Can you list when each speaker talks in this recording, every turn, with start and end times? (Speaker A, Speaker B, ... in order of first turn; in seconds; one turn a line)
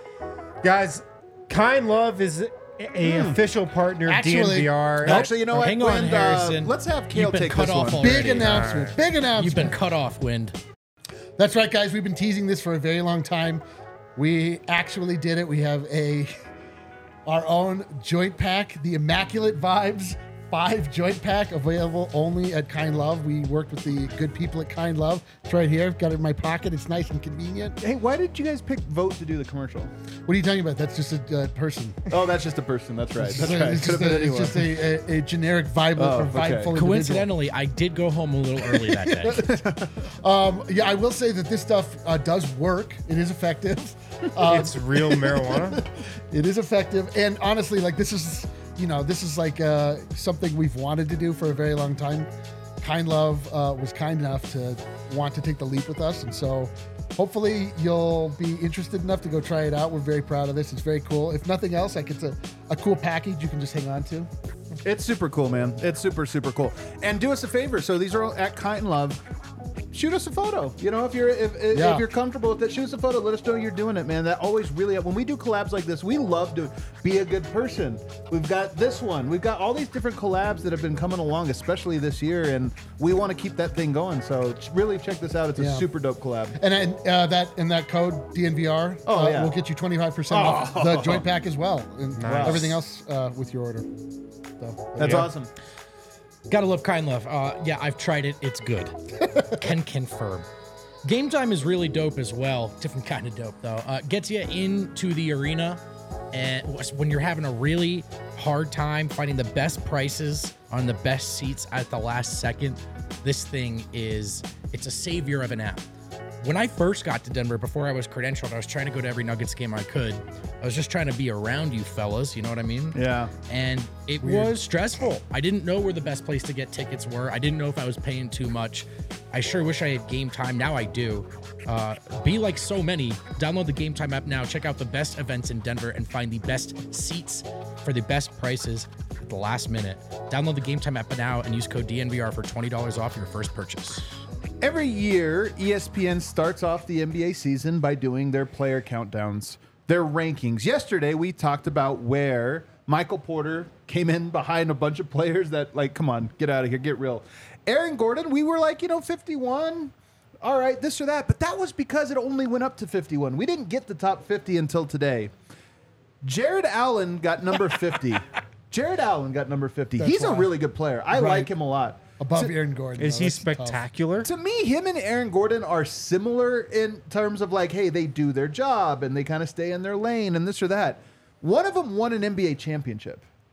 Speaker A: 0.6-5.2
Speaker B: 3.0-3.4
Speaker C: 4.0-4.9
Speaker B: 5.0-8.2
Speaker D: 5.0-8.8
Speaker C: 8.0-9.8
Speaker A: 8.4-9.0
Speaker D: 9.4-10.6
Speaker C: 11.4-13.6
Speaker C: 14.2-16.4
Speaker C: 17.3-27.8
Speaker B: 27.8-29.9
Speaker C: 30.3-32.1
Speaker B: 32.1-34.8
Speaker C: 33.2-37.3
Speaker B: 36.0-36.7
Speaker D: 36.7-39.5
Speaker C: 38.8-52.3
Speaker B: 39.4-39.9
Speaker A: 44.4-45.8
Speaker C: 52.8-64.3
Speaker B: 64.8-69.2
Speaker B: 69.9-86.6
Speaker C: 71.7-72.1
Speaker C: 85.6-85.9
Speaker C: 86.5-94.0
Speaker B: 89.1-89.5
Speaker B: 90.3-91.3
Speaker A: 92.2-92.8
Speaker B: 92.3-92.8
Speaker C: 94.6-95.3
Speaker B: 95.0-95.5
Speaker A: 95.0-95.3
Speaker D: 96.5-99.0
Speaker D: 99.5-100.5
Speaker D: 101.0-115.9
Speaker D: 116.4-144.1
Speaker B: 122.9-123.3
Speaker B: 144.6-165.3
Speaker B: 166.2-172.5
Speaker C: 170.0-170.6
Speaker C: 171.1-171.5
Speaker C: 172.2-173.8
Speaker A: 173.0-174.3
Speaker B: 174.2-183.2